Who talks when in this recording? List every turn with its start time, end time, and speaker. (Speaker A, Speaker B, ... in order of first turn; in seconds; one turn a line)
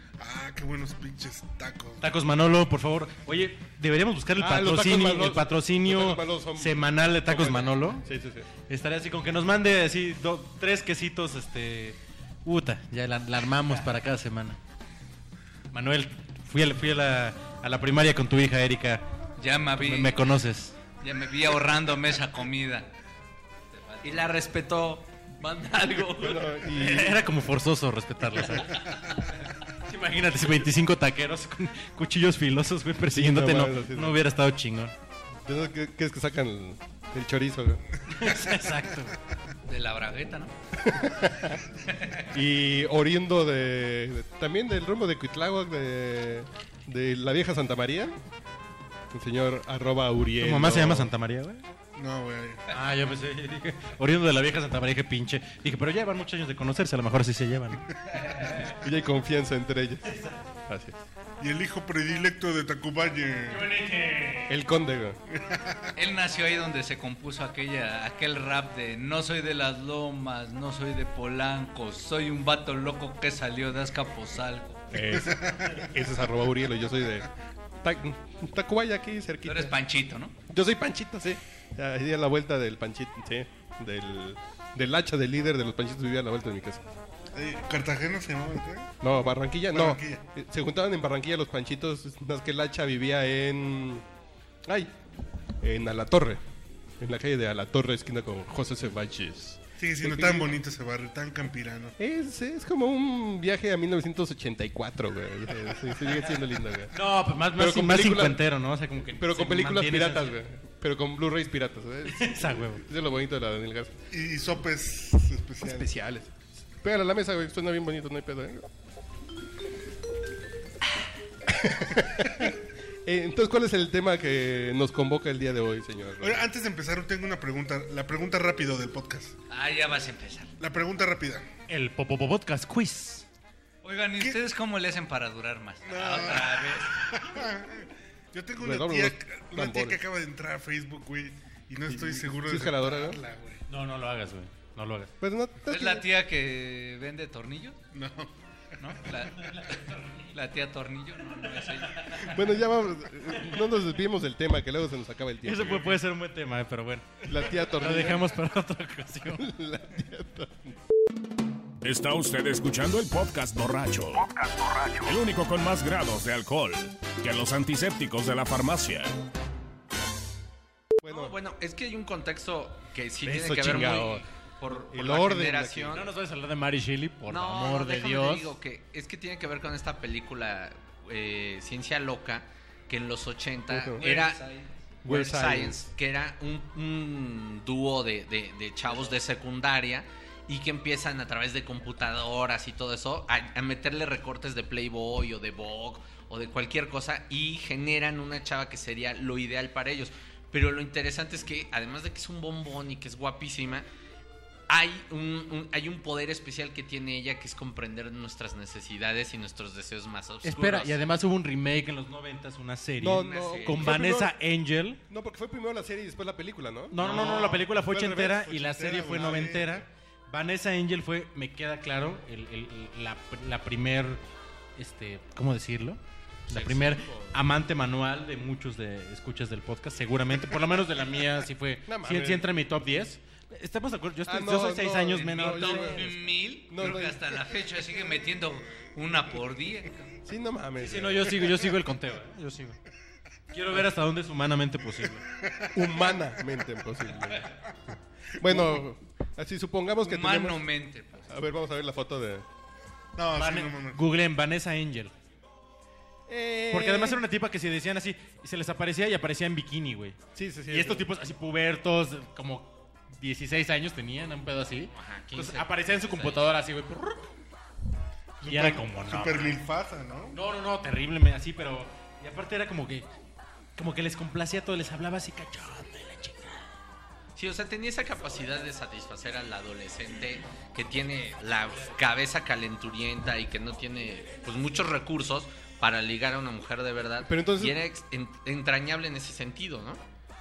Speaker A: 0.2-2.1
Speaker B: 2.0-8.0
Speaker C: 4.4-8.5
Speaker B: 8.7-14.6
Speaker B: 15.7-19.0
Speaker D: 19.4-20.2
Speaker B: 19.8-20.8
Speaker D: 21.0-22.9
Speaker D: 23.7-24.4
Speaker E: 24.0-26.8
Speaker C: 26.1-27.2
Speaker B: 26.7-28.8
Speaker B: 29.8-34.9
Speaker C: 33.1-34.2
Speaker C: 35.5-37.8
Speaker B: 38.1-39.1
Speaker D: 39.6-40.5
Speaker C: 40.8-41.6
Speaker D: 41.9-42.2
Speaker C: 42.3-48.1
Speaker C: 49.1-51.1
Speaker B: 50.4-51.6
Speaker A: 52.0-52.6
Speaker B: 52.7-58.6
Speaker C: 58.8-60.1
Speaker B: 60.1-60.4
Speaker C: 60.7-61.0
Speaker A: 61.4-63.7
Speaker B: 63.5-64.6
Speaker C: 64.5-65.2
Speaker A: 65.3-65.8
Speaker D: 66.0-74.8
Speaker C: 74.9-77.3
Speaker A: 75.2-75.9
Speaker C: 77.8-79.7
Speaker D: 79.4-80.3
Speaker C: 80.5-86.8
Speaker A: 87.3-88.9
Speaker C: 89.0-94.0
Speaker A: 89.7-90.2
Speaker C: 94.7-94.9
Speaker C: 95.6-96.4
Speaker C: 97.0-100.5
Speaker A: 99.8-102.0
Speaker C: 102.0-106.9
Speaker B: 106.9-110.4
Speaker C: 107.5-108.5
Speaker C: 109.2-114.0
Speaker B: 112.1-112.8
Speaker A: 114.1-115.9
Speaker C: 115.6-118.7
Speaker C: 121.5-122.5
Speaker C: 123.0-126.4
Speaker A: 126.2-129.3
Speaker D: 129.5-130.5
Speaker A: 130.6-131.4
Speaker B: 131.7-133.2
Speaker D: 133.8-137.0
Speaker A: 135.8-143.6
Speaker C: 138.6-140.0
Speaker C: 141.9-143.2
Speaker B: 143.7-145.1
Speaker C: 145.2-146.1
Speaker D: 145.7-147.8
Speaker A: 147.9-148.3
Speaker D: 148.8-152.3
Speaker C: 152.3-155.9
Speaker B: 155.4-159.5
Speaker C: 157.2-158.3
Speaker C: 159.3-160.7
Speaker F: 161.8-169.1
Speaker C: 171.0-171.3
Speaker E: 171.1-176.1
Speaker C: 173.2-174.2
Speaker C: 174.9-176.0
Speaker B: 175.9-178.5
Speaker E: 177.3-184.4
Speaker C: 183.7-184.1
Speaker D: 184.0-184.7
Speaker C: 185.0-185.9
Speaker E: 185.1-203.8
Speaker E: 204.7-211.0
Speaker B: 210.4-215.0
Speaker C: 213.0-214.3
Speaker E: 213.0-214.0
Speaker C: 215.1-218.6
Speaker B: 216.9-224.2
Speaker A: 217.0-217.5
Speaker A: 218.5-219.7
Speaker B: 224.8-236.1
Speaker E: 226.5-227.4
Speaker C: 231.9-232.5
Speaker C: 234.2-236.1
Speaker D: 235.2-240.1
Speaker C: 236.7-237.2
Speaker C: 240.2-241.6
Speaker B: 240.8-242.8
Speaker B: 243.5-245.2
Speaker A: 245.4-246.1
Speaker C: 245.7-247.4
Speaker C: 248.4-250.6
Speaker D: 250.1-251.4
Speaker C: 251.3-252.4
Speaker A: 253.2-254.0
Speaker B: 253.3-255.1
Speaker C: 256.3-257.2
Speaker B: 256.7-267.3
Speaker C: 260.3-261.1
Speaker E: 264.9-266.5
Speaker A: 268.4-270.4
Speaker B: 268.4-269.6
Speaker B: 270.3-273.1
Speaker B: 273.8-276.6
Speaker E: 277.3-290.0
Speaker C: 287.2-287.8